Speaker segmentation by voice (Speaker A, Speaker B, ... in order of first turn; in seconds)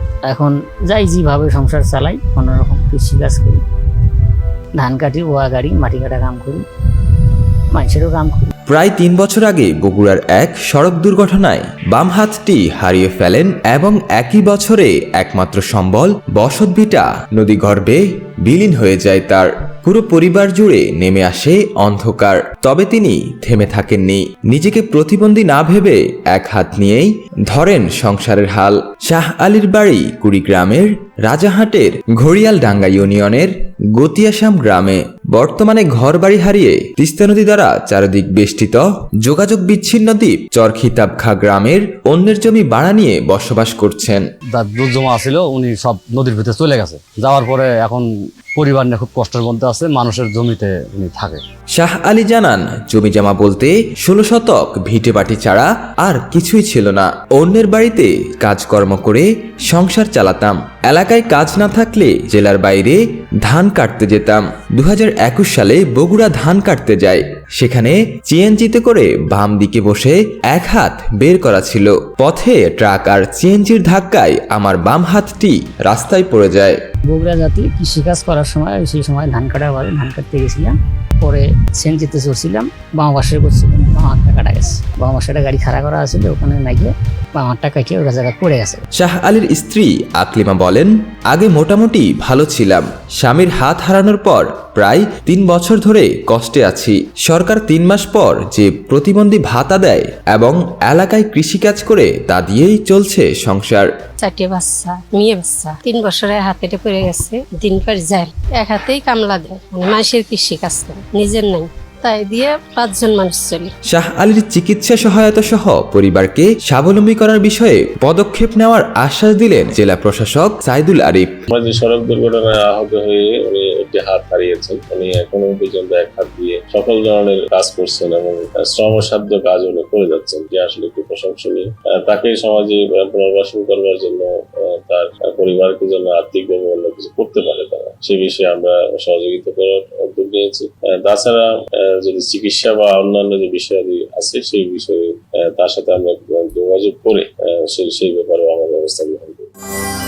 Speaker A: 0.3-3.6, 4.8-6.6, 7.7-8.5, 77.1-88.8
Speaker B: 8.7-44.2, 51.8-76.8, 89.0-103.9, 113.9-121.3
Speaker C: 44.5-51.4
Speaker D: 104.2-113.7
Speaker E: 121.5-149.5